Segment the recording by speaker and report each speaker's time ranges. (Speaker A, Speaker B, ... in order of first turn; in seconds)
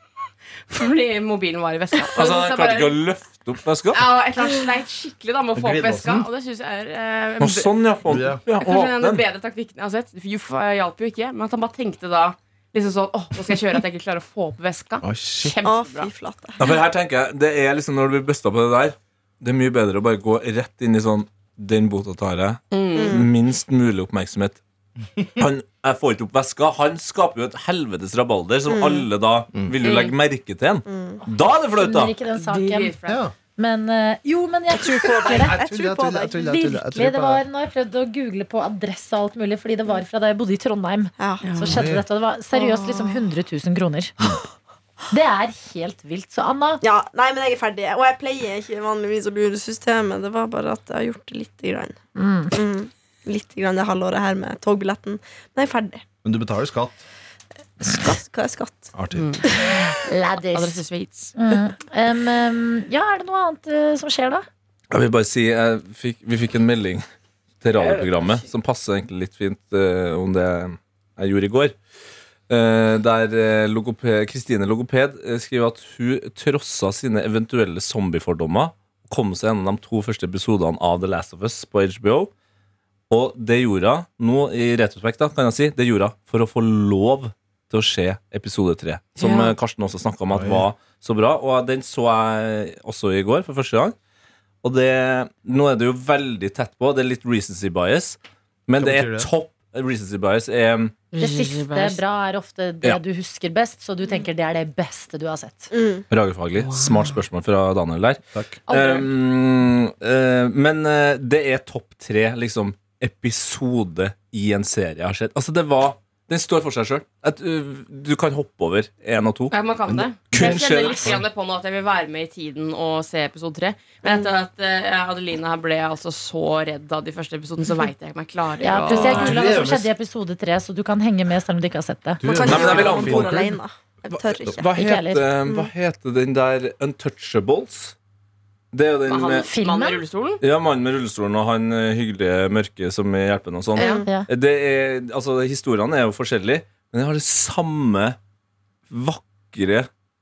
Speaker A: 0.7-3.0, 3.9-7.7, 8.6-16.1, 22.7-23.2, 32.4-33.2, 41.4-41.8, 59.1-59.4, 60.5-61.3, 67.8-68.2, 89.2-89.5, 101.1-102.0, 106.6-107.2, 108.7-109.1, 119.5-129.4, 139.1-140.4, 143.8-144.0
Speaker B: 2.1-4.1, 7.4-9.2, 16.6-24.6, 25.4-32.1, 64.9-67.0, 67.6-71.7, 72.5-82.3, 83.1-93.9, 94.6-101.0, 106.1-121.2, 132.4-133.4, 134.1-137.9, 138.7-139.5, 140.4-148.2, 148.9-149.9
Speaker C: 5.5-6.3, 8.1-8.4, 15.0-15.6, 33.1-33.3, 34.9-37.4, 41.7-42.0, 56.2-57.0, 58.9-59.3, 90.3-90.7, 98.8-99.3, 108.3-108.6, 128.9-129.9, 132.2-133.6
Speaker D: 15.6-16.7, 22.9-23.3, 28.7-29.1, 30.9-31.2, 34.8-36.5, 41.2-41.6, 46.8-52.0, 52.5-56.0, 57.8-58.9, 105.7-106.0, 124.0-124.3, 132.2-134.7, 143.8-144.1
Speaker E: 29.8-30.1, 31.8-33.0, 33.5-35.6, 36.4-44.1, 45.1-46.8, 52.1-52.6, 60.0-60.8, 61.3-64.5, 101.2-105.7, 128.6-132.2, 134.8-135.3, 139.4-140.0